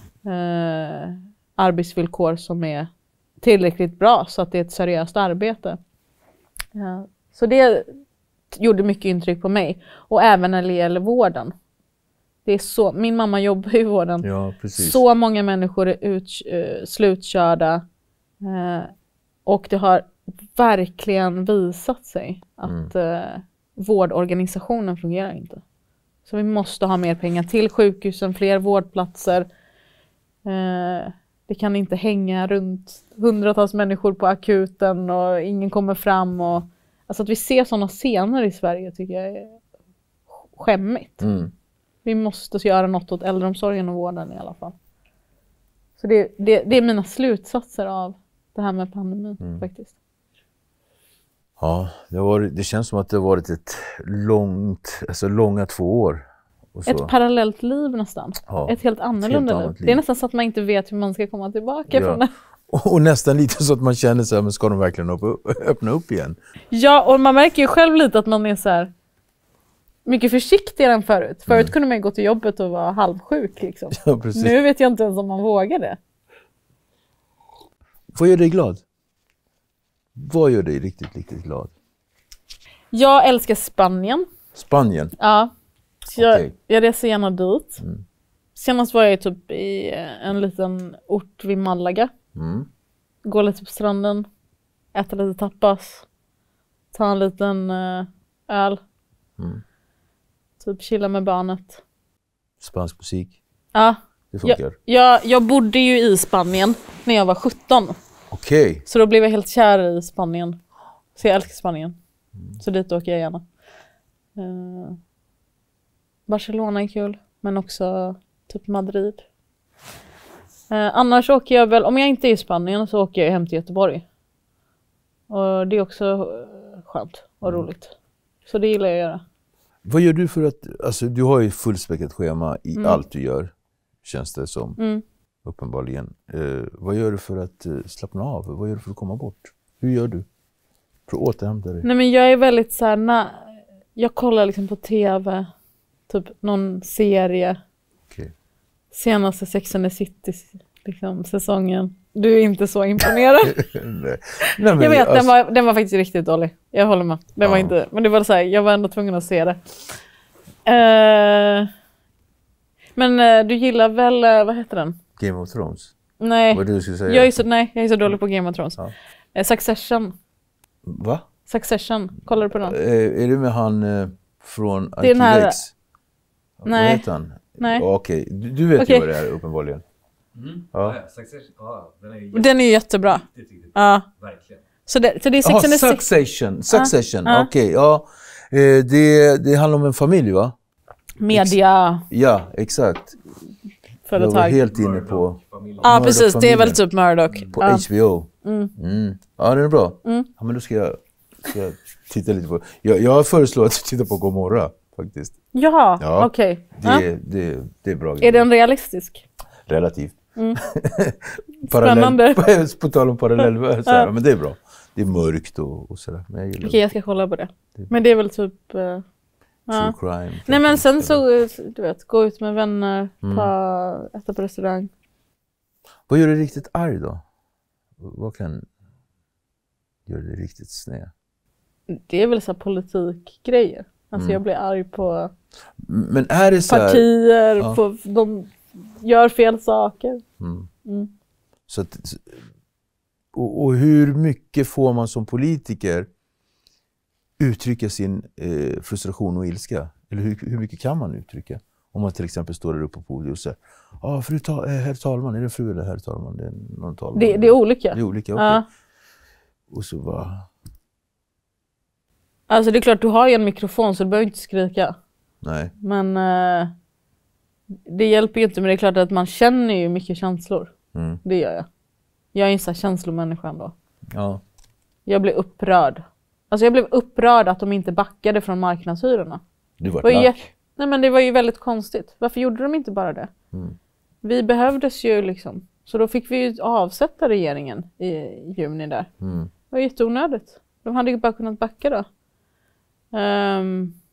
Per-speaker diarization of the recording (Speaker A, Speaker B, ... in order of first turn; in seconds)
Speaker A: 0.2-2.9, 3.4-5.8, 6.7-7.9, 8.5-11.6, 12.4-17.8, 18.4-18.9, 19.5-25.6, 26.3-29.5, 30.4-39.6, 40.3-41.2, 42.0-44.8, 46.0-49.9, 56.9-62.3, 66.7-68.9, 70.1-76.0, 82.9-84.3, 85.2-85.5, 86.1-87.8, 88.6-92.1, 93.2-94.3, 94.9-96.1, 96.9-98.8, 100.6-101.8, 103.7-108.0, 108.9-110.6, 111.2-112.0, 112.6-113.4, 114.4-115.0, 116.3-119.2, 120.7-124.0, 125.3-127.9, 128.5-129.2, 134.8-135.0, 141.8-145.5, 146.1-147.6, 148.9-153.6, 154.8-159.7, 160.7-161.7, 163.0-165.0, 166.2-168.8, 169.3-170.1, 171.5-172.7, 175.0-175.6, 176.7-177.0, 177.6-177.8, 178.8-179.1, 182.3-183.2, 183.8-184.1, 184.9-186.1, 186.7-187.5, 191.2-192.1, 194.1-194.6, 195.8-197.8, 198.4-198.7, 205.5-207.1, 208.2-209.2, 211.7-212.4, 213.4-214.1, 216.6-219.0, 219.7-219.9, 220.5-224.9, 231.9-235.3, 236.7-240.2, 240.8-241.1, 257.1-258.6, 262.5-265.0, 265.8-266.7, 267.9-270.7, 271.2-271.7, 272.3-273.7, 275.1-279.4, 280.0-283.3, 284.2-289.1, 289.7-292.1, 293.1-294.0
Speaker B: 14.2-15.0, 22.6-22.9, 41.2-41.5, 49.4-49.6, 51.6-57.1, 58.5-60.0, 61.9-66.4, 71.5-71.7, 73.9-74.6, 78.2-78.8, 80.2-81.7, 84.5-85.2, 86.2-86.5, 92.3-92.7, 102.6-103.4, 104.3-104.8, 108.3-108.8, 129.8-133.5, 134.0-134.8, 135.4-140.3, 141.1-141.9, 153.4-155.3, 157.4-157.7, 165.2-165.9, 166.5-167.4, 170.8-171.3, 172.3-175.7, 176.6-179.8, 180.7-181.0, 185.4-190.6, 191.3-191.6, 192.1-193.2, 194.2-196.8, 197.5-205.4, 206.0-208.5, 209.7-216.8, 219.7-221.2, 223.2-223.5, 226.1-227.2, 228.0-228.7, 230.1-231.1, 234.2-234.4, 235.8-237.1, 240.4-240.7, 241.7-242.4, 243.3-246.1, 247.4-258.6, 259.7-260.5, 265.4-265.7, 270.9-271.2, 274.1-274.4, 279.8-280.4, 289.2-289.5
Speaker C: 180.4-184.6, 194.7-196.0